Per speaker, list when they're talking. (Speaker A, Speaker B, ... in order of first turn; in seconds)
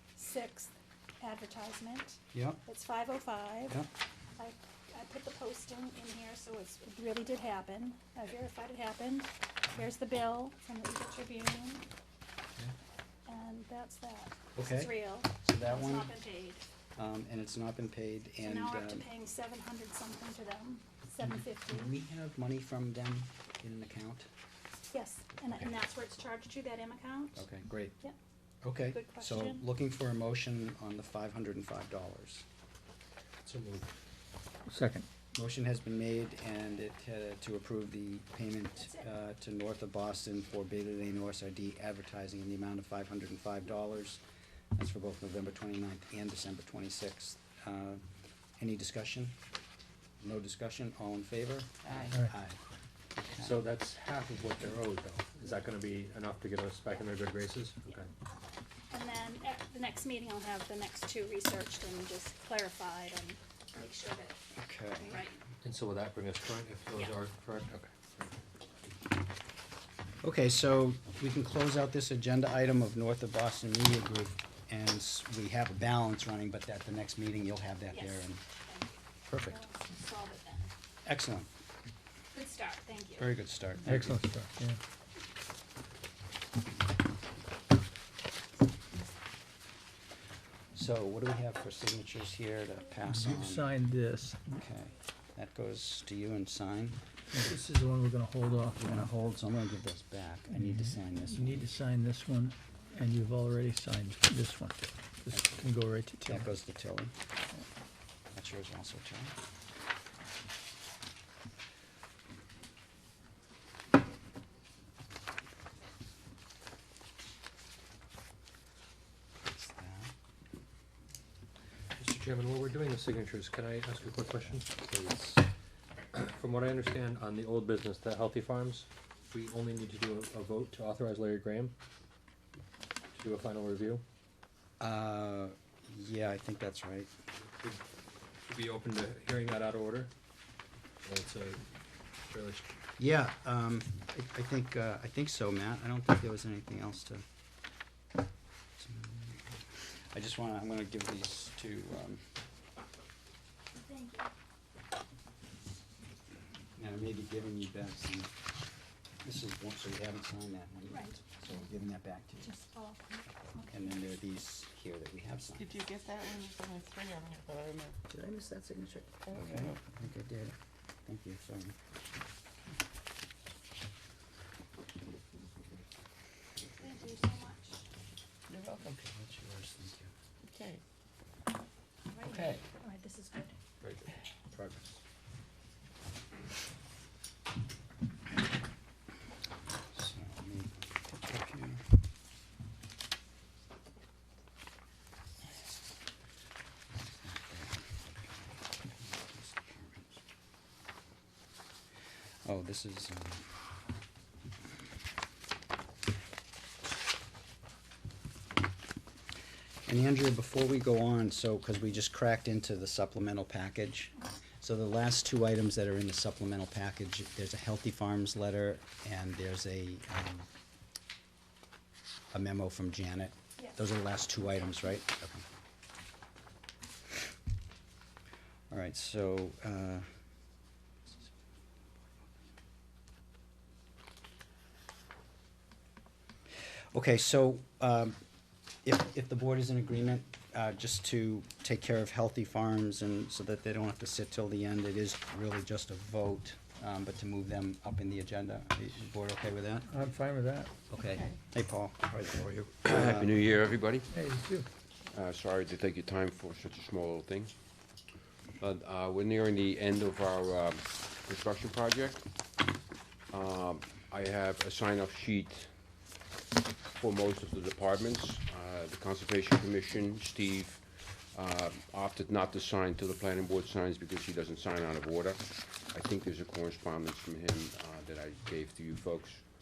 Speaker A: 0.2-3.8, 4.4-11.8, 13.3-16.6, 18.4-21.9, 24.9-27.4, 28.9-29.6, 38.8-39.1, 58.9-64.4, 65.0-65.4, 77.9-80.7, 82.3-83.3, 153.8-154.3, 160.9-161.2, 162.4-163.9, 176.8-177.8, 182.1-183.6
Speaker B: 2.3-2.6, 14.6-16.1, 17.0-19.1, 21.2-24.3, 27.4-27.9, 28.6-32.4, 35.4-44.2, 44.8-48.0, 48.6-49.4, 50.2-52.6, 64.6-65.2, 70.2-78.4, 79.3-79.7, 81.0-81.5, 83.2-84.2, 90.7-93.7, 94.5-97.0, 98.8-101.6, 106.2-107.1, 108.3-109.3, 119.4-120.1, 124.7-125.5, 134.8-137.1, 143.0-147.2, 148.8-149.5, 150.1-152.2, 156.8-158.3, 159.2-162.5, 163.7-165.8, 168.1-171.8, 178.5-180.1, 183.8-184.9, 189.9-191.8, 196.9-200.2, 202.4-203.4, 209.9-220.5, 222.3-225.4, 228.7-230.1, 236.9-238.2, 238.8-249.9, 250.9-253.3
Speaker C: 33.4-33.9, 53.4-58.1, 65.6-68.0, 122.0-124.7, 126.1-131.8, 133.2-134.0, 138.5-140.1, 141.0-141.6, 142.2-142.7
Speaker D: 34.7-35.1, 83.8-84.8, 93.1-94.6, 97.3-99.1, 100.6-106.5, 249.9-250.7, 254.1-254.7
Speaker E: 165.6-167.9, 169.3-169.6, 178.5-178.8, 180.5-180.8
Speaker F: 252.8-254.1, 255.1-257.5, 258.6-262.2, 263.3-265.7, 266.9-279.5